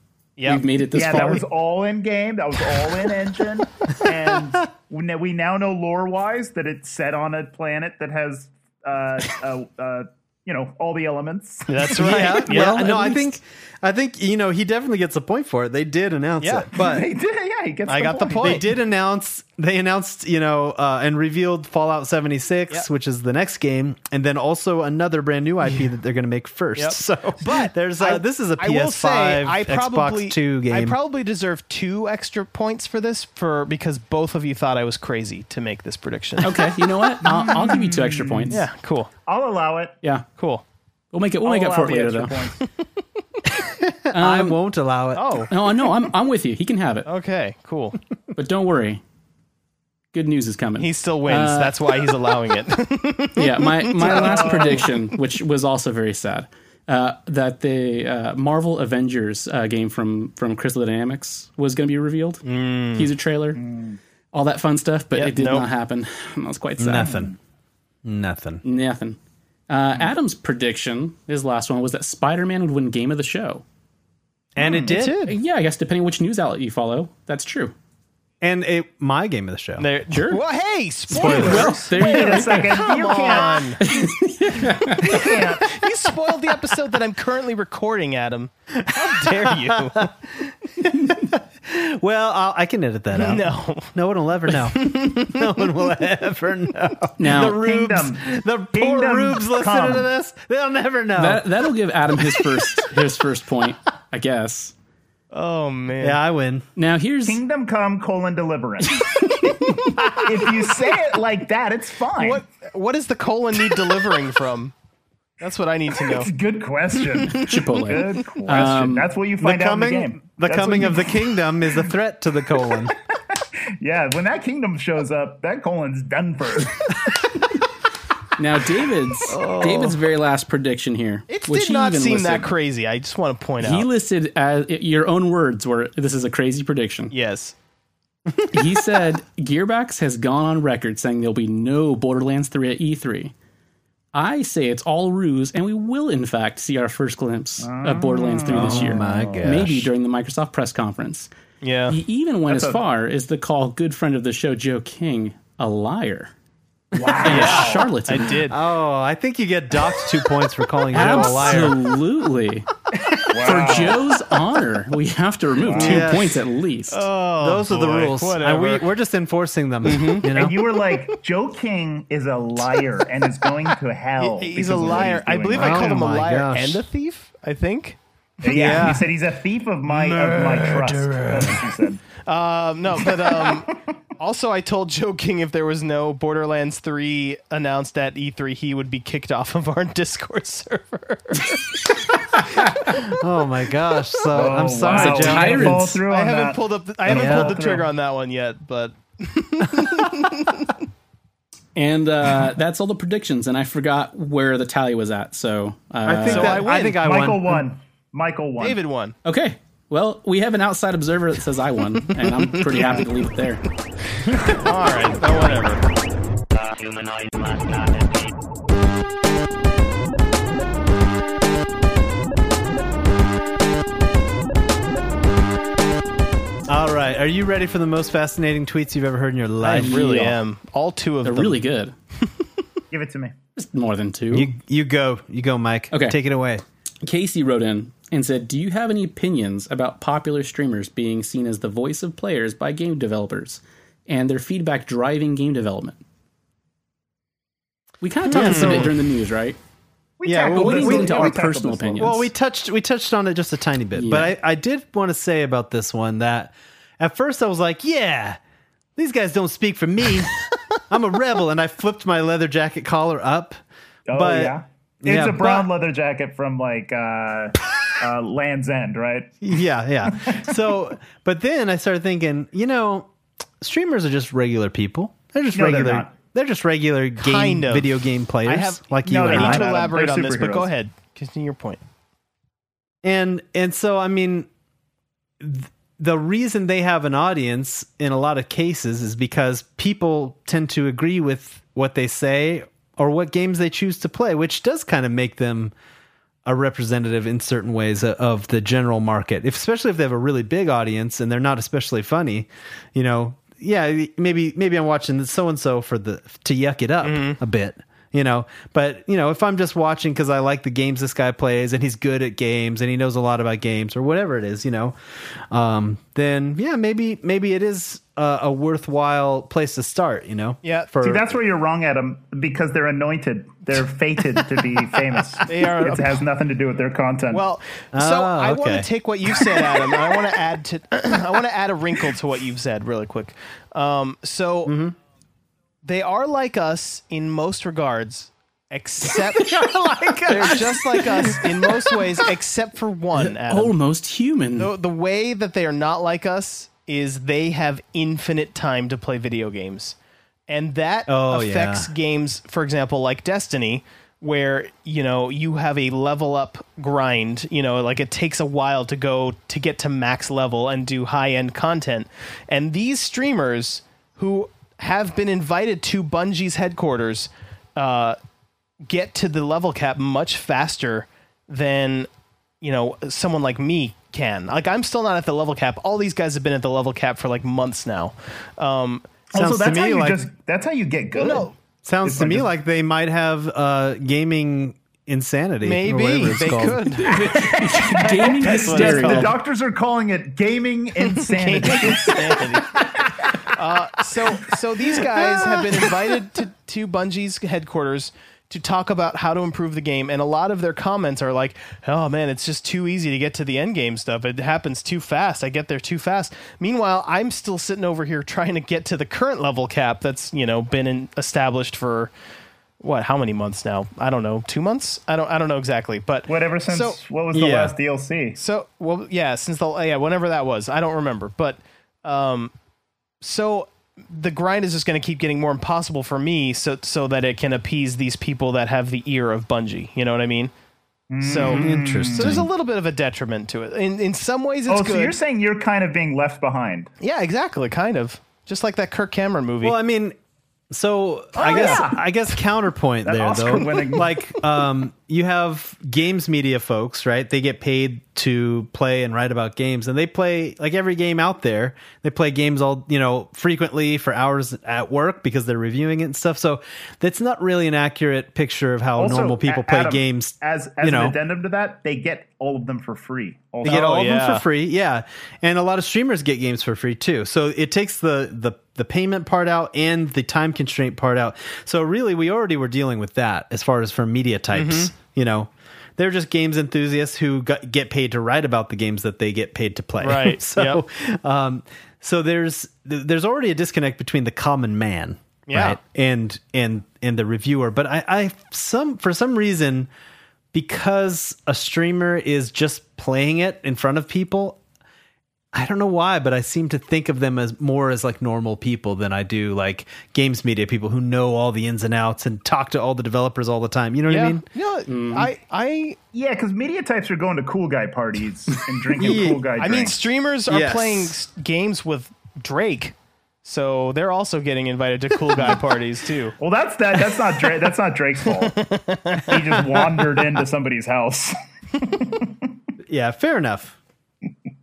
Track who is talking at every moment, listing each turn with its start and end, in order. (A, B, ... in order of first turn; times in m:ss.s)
0:00.4-0:01.4 A
0:00.9-0:12.4 B
0:11.7-0:13.3 C
0:11.9-0:17.1 D
0:16.4-0:16.7 C
0:16.8-0:18.6 B
0:17.9-0:18.7 C
0:18.4-0:31.0 D
0:26.8-0:36.6 C
0:36.4-0:38.6 A
0:37.2-0:38.6 B
0:38.5-0:39.1 C
0:39.3-0:40.0 B
0:40.4-0:40.6 C
0:41.1-0:42.5 A
0:41.4-0:42.6 B
0:43.5-0:45.5 D
0:44.1-0:44.6 A
0:45.1-0:45.5 C
0:45.5-0:47.1 A
0:47.0-0:48.0 C
0:48.3-0:49.0 A
0:50.1-0:52.2 A
0:50.8-0:54.9 C
0:53.3-1:03.6 A
0:54.0-0:54.9 B
1:02.4-1:03.1 C
1:03.6-1:04.0 B
1:04.3-1:07.2 A
1:05.1-1:05.7 C
1:06.8-1:07.3 D
1:07.0-1:07.3 B
1:08.0-1:08.6 D
1:08.6-1:09.2 A
1:09.7-1:13.6 A
1:14.6-1:15.2 D
1:14.6-1:15.4 C
1:15.3-1:17.7 A
1:18.4-1:19.9 D
1:19.8-1:23.9 C
1:20.1-1:20.4 A
1:21.1-1:21.8 D
1:21.1-1:22.8 A
1:21.9-1:23.8 B
1:23.8-1:25.1 A
1:25.0-1:30.1 C
1:25.0-1:25.8 B
1:28.9-1:30.1 D
1:30.8-1:41.4 D
1:33.1-1:33.9 C
1:34.8-1:35.4 C
1:37.2-1:37.6 A
1:37.4-1:40.1 B
1:41.2-1:44.7 A
1:45.3-1:46.2 C
1:46.0-1:46.6 D
1:46.8-1:47.4 A
1:47.3-1:52.4 B
1:52.2-1:54.7 C
1:55.4-1:56.3 C
1:56.0-2:01.8 B
1:57.2-1:59.1 A
1:59.4-2:02.9 D
2:03.8-2:07.2 B
2:08.4-2:12.5 A
2:09.3-2:10.0 C
2:11.3-2:13.8 C
2:13.6-2:17.1 A
2:17.1-2:17.6 C
2:18.4-2:23.3 A
2:24.1-2:31.3 A
2:27.6-2:29.4 B
2:28.5-2:29.9 D
2:31.6-2:31.9 C
2:31.9-2:36.3 A
2:32.5-2:32.8 B
2:36.9-2:37.9 B
2:37.2-2:38.4 A
2:37.2-2:38.6 C
2:38.5-2:41.8 D
2:40.9-2:42.7 A
2:43.1-2:44.0 B
2:43.4-2:47.1 A
2:45.6-2:46.1 B
2:45.7-2:46.4 D
2:46.9-2:48.9 C
2:47.4-2:50.6 D
2:49.8-2:50.3 C
2:50.3-2:56.0 B
2:54.2-2:58.0 C
2:55.5-2:56.8 D
2:58.4-3:02.0 B
2:58.4-2:59.1 D
2:59.9-3:01.6 D
3:02.3-3:11.6 C
3:03.1-3:03.8 B
3:12.7-3:16.0 D
3:14.3-3:17.9 B
3:14.9-3:16.0 A
3:16.1-3:20.8 C
3:17.1-3:17.6 D
3:21.7-3:26.6 A
3:26.0-3:27.7 D
3:26.2-3:27.0 C
3:26.9-3:28.8 B
3:28.6-3:29.1 C
3:29.2-3:33.6 A
3:32.6-3:33.0 C
3:34.3-3:35.8 C
3:36.8-3:38.0 B
3:46.7-3:50.3 D
3:49.6-3:51.6 C
3:49.8-3:50.3 A
3:51.2-3:51.9 A
3:52.9-3:53.3 B
3:53.6-3:54.5 A
3:54.3-3:56.6 D
3:55.9-3:56.2 A
3:57.0-4:06.0 A
4:08.0-4:09.6 A
4:08.3-4:08.9 D
4:08.3-4:08.9 C
4:10.2-4:12.2 B
4:10.2-4:11.3 D
4:10.5-4:12.3 A
4:12.0-4:18.4 D
4:13.9-4:14.3 A
4:19.0-4:23.6 D
4:24.1-4:29.3 B
4:24.1-4:25.7 D
4:29.4-4:33.1 D
4:30.0-4:30.5 B
4:33.6-4:39.7 D
4:35.5-4:36.1 B
4:37.2-4:37.9 C
4:38.4-4:41.8 C
4:39.0-4:40.7 B
4:43.0-4:44.5 D
4:45.4-4:55.7 D
4:56.4-5:15.0 D
5:07.0-5:07.4 C
5:15.5-5:21.4 D
5:20.6-5:20.9 C
5:21.0-5:27.4 B
5:25.4-5:26.1 C
5:27.3-5:34.7 C
5:27.9-5:28.9 D
5:34.6-5:34.9 D
5:35.8-5:39.6 C
5:39.3-5:41.9 D
5:40.3-5:43.7 C
5:43.2-5:44.7 A
5:44.6-5:50.0 C
5:50.5-6:08.2 C
5:51.1-5:51.9 D
6:08.8-6:12.1 C
6:12.6-6:19.1 C
6:19.3-6:21.5 B
6:19.3-6:20.2 D
6:21.1-6:21.5 C
6:21.8-6:26.9 D
6:22.0-6:22.5 B
6:25.6-6:29.3 C
6:27.0-6:29.4 A
6:27.6-6:33.4 B
6:31.3-6:32.3 D
6:31.4-6:32.8 C
6:33.5-6:52.1 C
6:35.0-6:36.1 D
6:52.8-6:57.0 C
6:56.3-6:58.4 B
6:57.3-6:57.7 D
6:58.4-7:02.5 C
7:03.2-7:10.5 C
7:11.1-7:12.4 B
7:11.2-7:15.2 C
7:11.5-7:12.5 D
7:14.7-7:16.9 B
7:17.0-7:19.8 C
7:19.6-7:20.2 D
7:20.7-7:41.2 D
7:21.4-7:22.0 B
7:21.5-7:21.8 C
7:23.0-7:24.2 B
7:39.0-7:43.9 B
7:43.6-8:09.9 D
7:43.6-7:44.4 C
7:54.5-7:54.9 C
8:00.0-8:00.8 C
8:05.5-8:05.8 C
8:10.5-8:14.6 D
8:15.5-8:24.4 D
8:24.1-8:26.0 C
8:24.9-8:25.3 A
8:26.1-8:30.0 B
8:29.0-8:29.4 D
8:29.6-8:36.4 C
8:30.5-8:31.1 D
8:36.4-8:38.6 B
8:38.4-8:39.8 C
8:39.2-8:42.5 B
8:42.9-8:43.8 D